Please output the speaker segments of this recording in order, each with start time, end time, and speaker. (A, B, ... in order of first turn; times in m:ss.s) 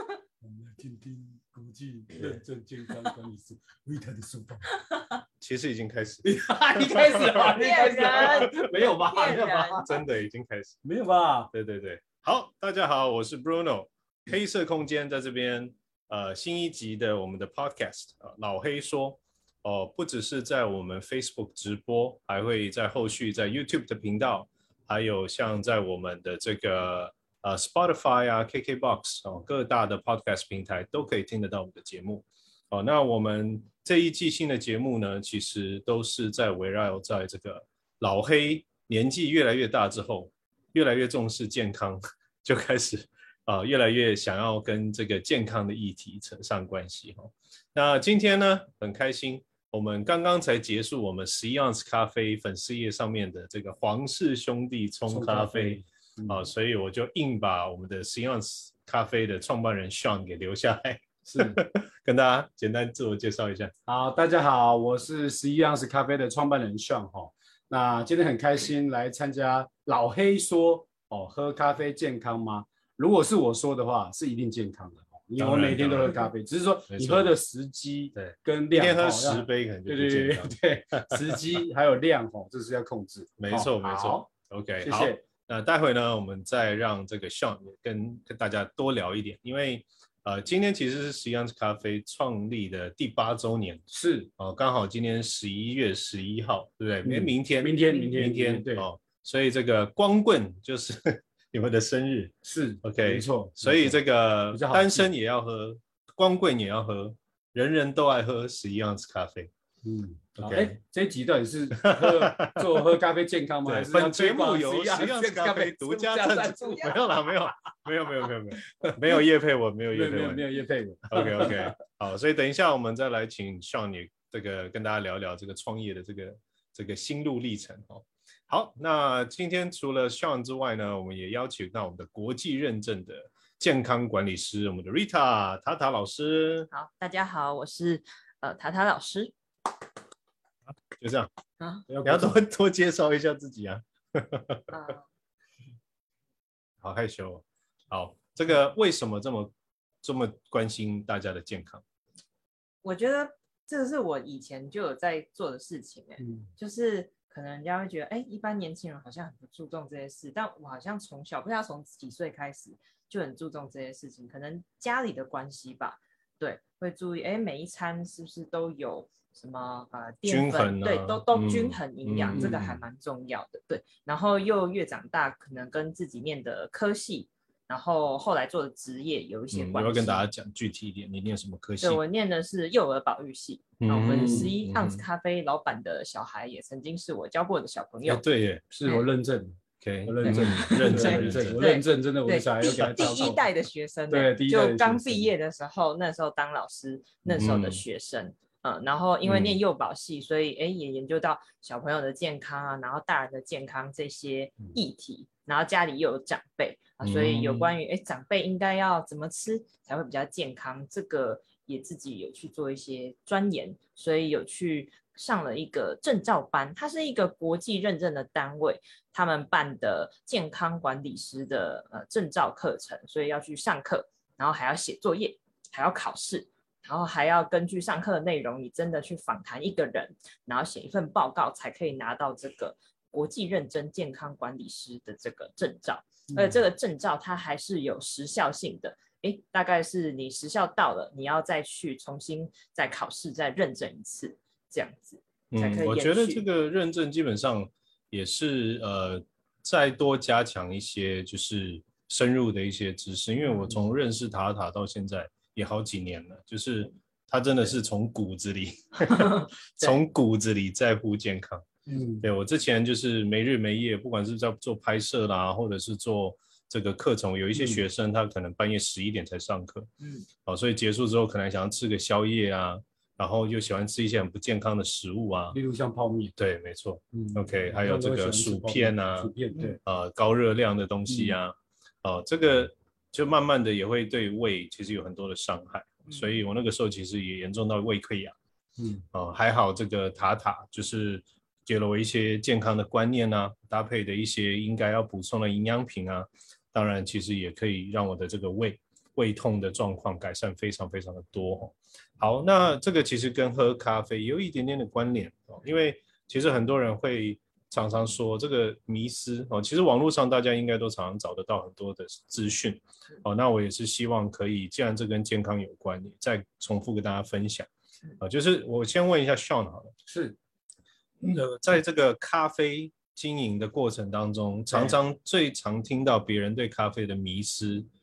0:00.4-0:04.8 A
0:05.4-0:06.3 B
0:06.2-0:09.9 A
0:06.8-0:07.6 B
0:07.4-0:10.0 C
0:08.2-0:10.8 B
0:10.8-0:11.5 A
0:11.5-1:03.7 B
0:55.1-0:56.5 A
1:01.3-1:01.6 A
1:03.9-1:24.3 A
1:15.4-1:16.3 B
1:16.9-1:17.3 B
1:18.2-1:21.4 B
1:23.4-1:33.8 B
1:24.8-1:25.2 A
1:33.9-1:34.3 A
1:34.4-1:49.5 B
1:37.0-1:38.9 A
1:42.4-1:44.0 A
1:44.5-1:45.1 A
1:49.8-1:57.0 A
1:50.4-1:50.8 B
1:51.8-1:52.8 B
1:53.7-2:00.4 B
1:59.9-2:01.7 A
2:01.1-2:16.7 B
2:16.7-2:19.3 C
2:20.9-2:21.3 B
2:21.6-2:21.8 C
2:21.9-2:22.4 A
2:22.0-2:24.7 B
2:24.7-2:25.0 C
2:26.8-2:29.5 B
2:30.0-2:31.8 B
2:32.8-3:00.2 C
2:36.2-2:36.5 A
2:50.2-2:52.8 B
2:59.5-3:02.0 B
3:01.8-3:08.2 C
3:03.8-3:05.0 B
3:04.1-3:04.5 A
3:08.0-3:08.6 B
3:08.7-3:13.4 A
3:09.8-3:11.6 B
3:10.2-4:06.4 C
3:12.6-3:13.3 B
3:14.1-3:15.3 A
3:17.2-3:17.5 A
3:17.4-3:17.8 B
3:19.2-3:19.6 B
3:27.0-3:27.7 B
4:05.5-4:21.6 B
4:19.1-4:20.0 C
4:21.9-4:22.3 A
4:22.2-4:29.9 B
4:27.6-4:27.8 A
4:30.5-4:35.6 B
4:35.5-4:36.3 A
4:36.4-4:39.3 B
4:37.1-4:39.8 A
4:39.8-4:48.4 B
4:41.1-4:41.4 A
4:48.8-4:49.0 A
4:49.1-5:17.7 B
5:18.2-5:19.9 B
5:20.1-5:20.4 A
5:21.2-5:27.9 B
5:24.7-5:25.0 A